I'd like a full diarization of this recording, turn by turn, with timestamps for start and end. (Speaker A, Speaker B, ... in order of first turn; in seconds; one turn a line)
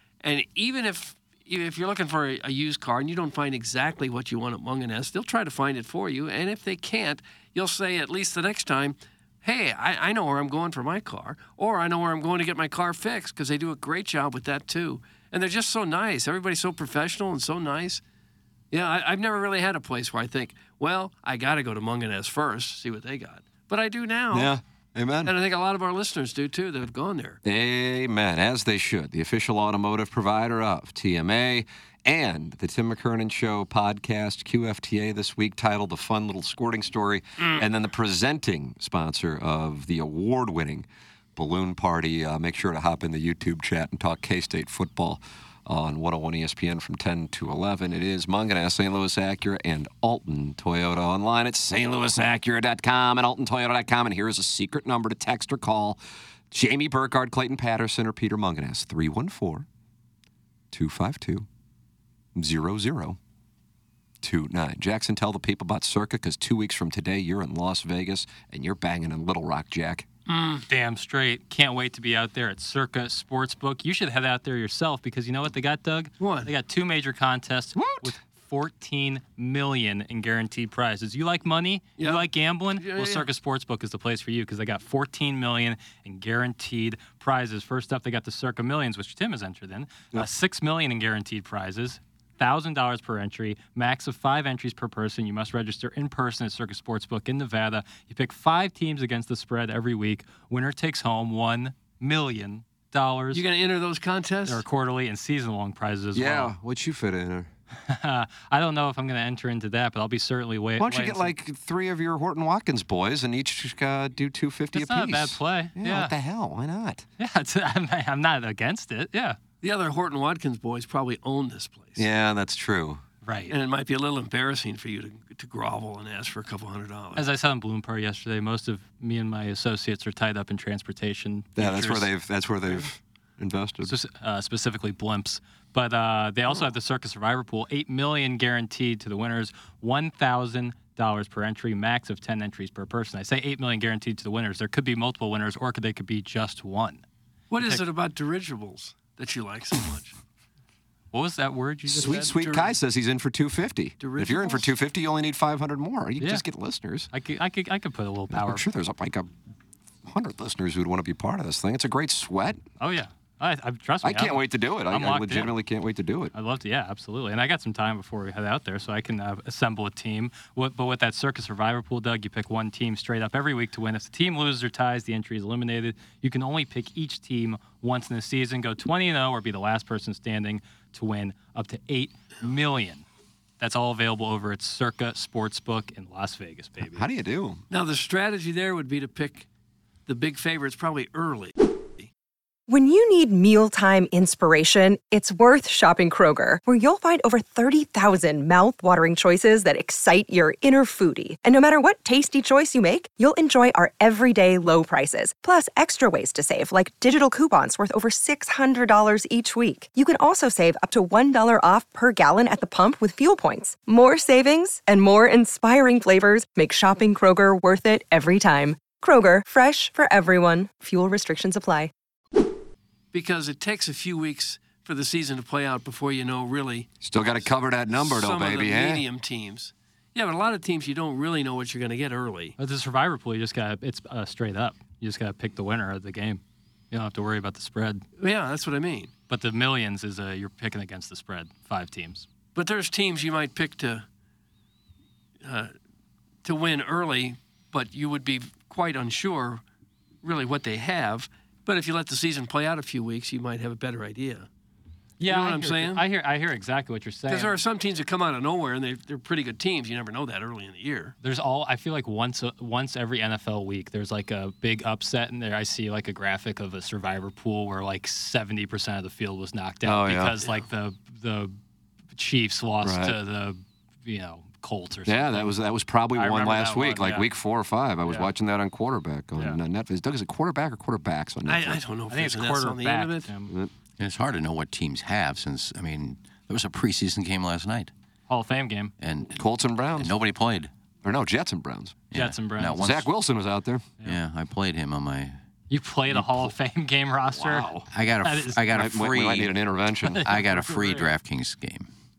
Speaker A: 0.2-18.0
Speaker A: 18.7-24.5
Speaker B: 24.3-25.3
Speaker A: 25.2-27.4
Speaker B: 27.4-56.0
Speaker A: 37.4-37.6
Speaker B: 56.5-59.7
Speaker B: 60.7-61.5
Speaker B: 62.3-63.2
Speaker B: 64.2-70.1
Speaker A: 70.3-70.7
Speaker C: 70.7-103.4
Speaker A: 76.2-76.5
Speaker B: 77.8-78.1
Speaker A: 82.0-83.3
Speaker A: 103.3-104.6
Speaker C: 104.5-106.5
Speaker B: 106.1-107.5
Speaker C: 107.8-111.3
Speaker B: 110.8-117.0
Speaker C: 114.7-116.1
Speaker C: 117.2-119.4
Speaker A: 119.6-122.0
Speaker B: 122.0-123.0
Speaker C: 123.2-123.5
Speaker A: 123.5-127.3
Speaker C: 127.2-132.1
Speaker B: 131.6-133.9
Speaker C: 133.8-147.0
Speaker A: 147.5-150.2
Speaker C: 151.1-152.3
Speaker B: 151.9-157.1
Speaker A: 152.3-152.7
Speaker A: 154.0-154.7
Speaker C: 157.1-158.7
Speaker B: 158.3-159.3
Speaker B: 160.1-162.6
Speaker C: 162.8-165.6
Speaker B: 164.0-166.3
Speaker C: 166.3-183.0
Speaker C: 183.6-187.1
Speaker B: 186.9-187.6
Speaker A: 187.7-189.5
Speaker A: 190.1-192.1
Speaker D: 192.7-221.9
Speaker A: 223.1-232.6
Speaker B: 227.0-229.0
Speaker C: 232.6-238.1
Speaker A: 238.2-239.1
Speaker C: 239.3-242.3
Speaker A: 242.5-244.1
Speaker A: 245.4-245.7
Speaker A: 246.4-249.6
Speaker A: 250.2-254.5
Speaker C: 255.2-257.6
Speaker A: 255.2-256.0
Speaker A: 257.3-261.1
Speaker C: 261.2-271.6
Speaker B: 269.8-270.4
Speaker A: 270.4-270.7
Speaker C: 272.1-275.5
Speaker B: 272.8-273.2
Speaker B: 275.1-281.8
Speaker C: 276.1-277.3
Speaker C: 278.1-278.3
Speaker A: 281.4-283.3
Speaker C: 282.1-283.5
Speaker E: 284.0-287.9
Speaker C: 288.3-288.9
Speaker E: 289.0-289.4
Speaker B: 289.3-290.1
Speaker E: 289.9-290.7
Speaker B: 291.0-292.0
Speaker E: 292.1-293.1
Speaker C: 292.1-292.8
Speaker B: 292.8-293.9
Speaker E: 294.0-295.4
Speaker C: 295.7-298.6
Speaker B: 296.1-296.5
Speaker B: 297.3-297.9
Speaker E: 297.9-299.6
Speaker B: 298.7-300.2
Speaker C: 300.1-301.1
Speaker E: 300.2-301.9